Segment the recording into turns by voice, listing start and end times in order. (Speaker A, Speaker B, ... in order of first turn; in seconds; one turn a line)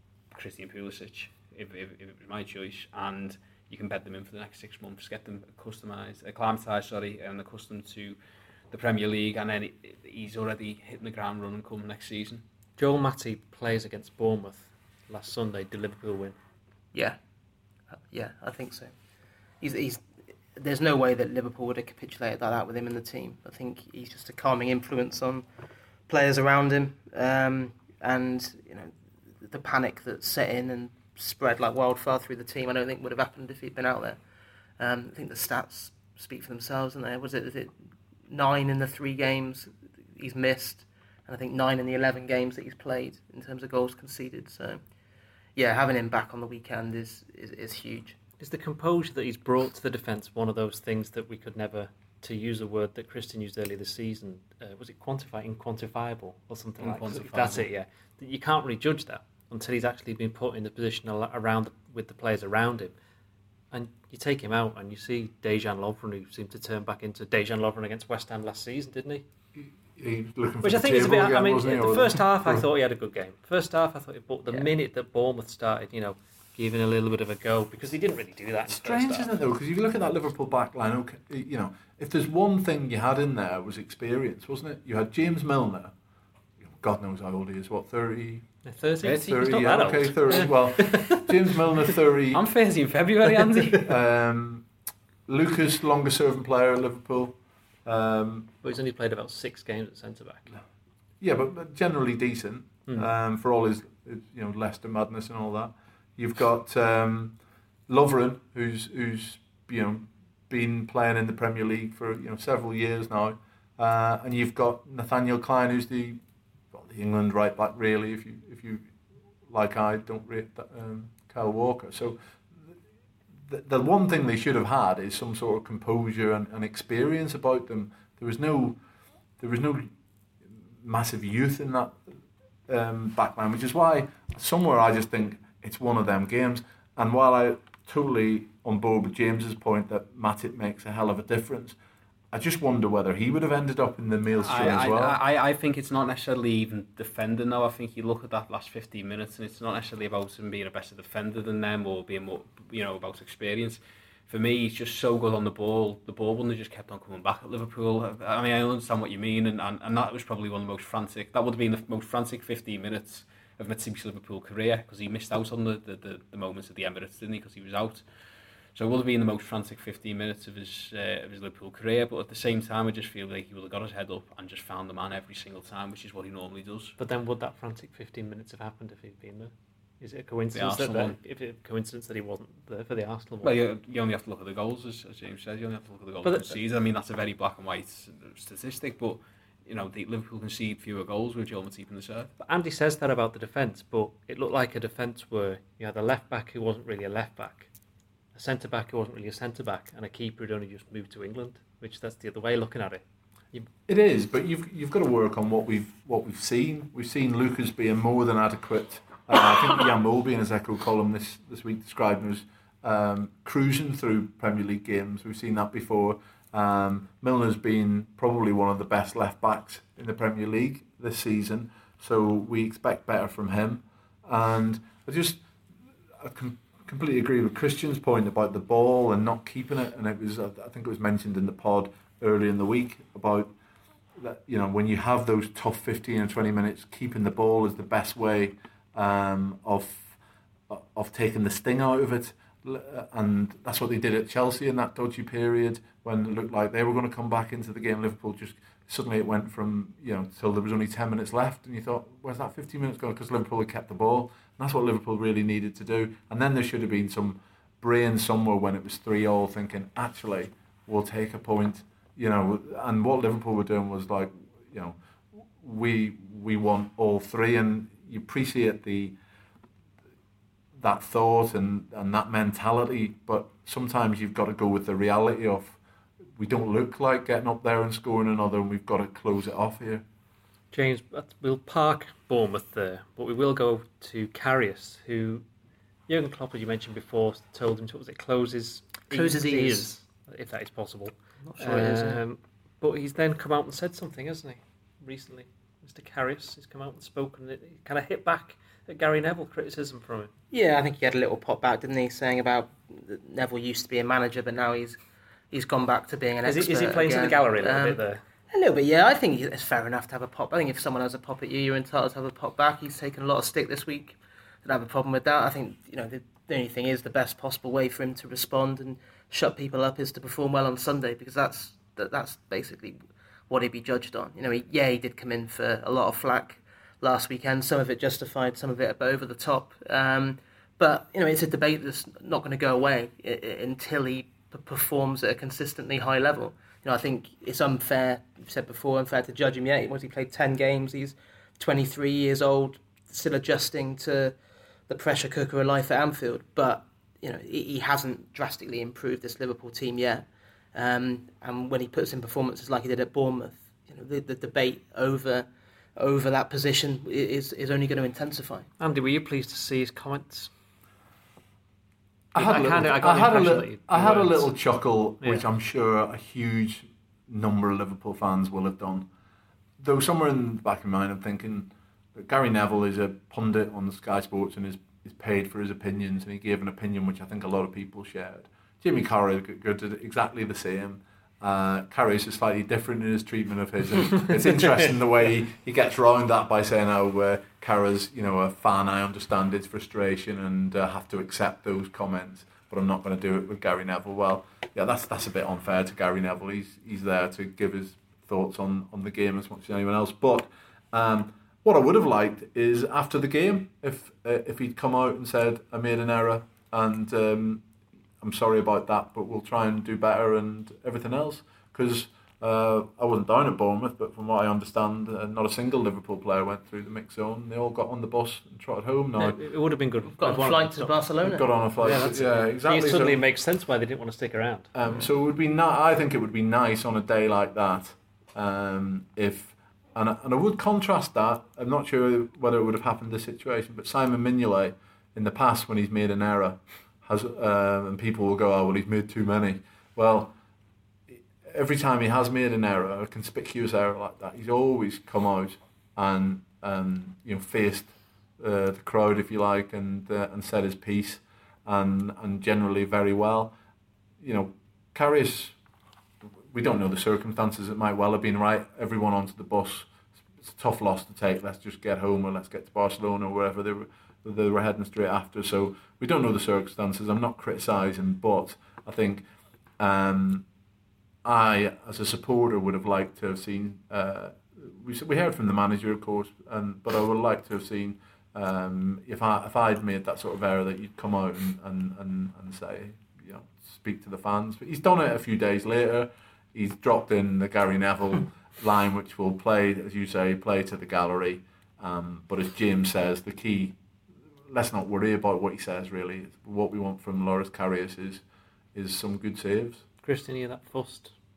Speaker A: 0.3-8.2
Speaker A: 8.7-12.4
Speaker B: 12.8-16.4
Speaker C: 18.0-18.9
Speaker C: 19.6-20.0
Speaker C: 20.6-25.4
Speaker C: 26.1-34.2
Speaker C: 34.8-37.7
Speaker C: 38.3-44.8
Speaker C: 45.6-48.2
Speaker B: 48.4-62.9
Speaker A: 56.8-57.7
Speaker B: 63.7-69.2
Speaker D: 69.5-72.7
Speaker B: 70.6-79.3
Speaker D: 78.7-85.9
Speaker D: 86.6-88.5
Speaker B: 88.7-91.3
Speaker A: 89.0-89.7
Speaker D: 89.1-92.4
Speaker A: 92.3-93.9
Speaker D: 93.8-94.7
Speaker D: 95.3-98.5
Speaker B: 98.6-100.4
Speaker D: 101.2-107.4
Speaker D: 107.9-116.2
Speaker D: 116.7-118.9
Speaker D: 119.5-122.2
Speaker D: 123.5-128.8
Speaker D: 129.4-129.9
Speaker D: 130.8-132.0
Speaker D: 132.7-141.8
Speaker D: 142.3-145.2
Speaker A: 144.4-168.0
Speaker A: 168.8-177.0
Speaker B: 177.0-183.5
Speaker A: 180.5-181.2
Speaker A: 183.4-192.3
Speaker B: 186.2-186.6
Speaker B: 192.4-197.7
Speaker B: 198.3-203.7
Speaker D: 203.9-225.4
Speaker D: 226.2-233.5
Speaker D: 234.2-240.2
Speaker D: 240.7-269.2
Speaker D: 270.8-275.8
Speaker D: 276.4-280.0
Speaker B: 280.7-285.4
Speaker B: 286.1-300.3
Speaker C: 289.1-289.9
Speaker C: 291.5-292.2
Speaker C: 300.5-305.0
Speaker C: 305.5-323.0
Speaker B: 306.4-308.2
Speaker C: 323.5-344.4
Speaker C: 344.9-358.7
Speaker B: 358.8-360.5
Speaker D: 362.3-369.1
Speaker B: 362.4-364.5
Speaker D: 369.8-407.6
Speaker D: 408.2-419.4
Speaker B: 419.2-421.0
Speaker C: 420.2-421.5
Speaker D: 421.2-423.2
Speaker B: 421.8-424.7
Speaker D: 424.7-440.3
Speaker D: 441.1-453.5
Speaker D: 454.2-455.6
Speaker D: 456.5-469.2
Speaker D: 469.8-470.5
Speaker D: 471.2-493.8
Speaker D: 494.5-498.2
Speaker D: 498.8-499.8
Speaker B: 500.0-501.1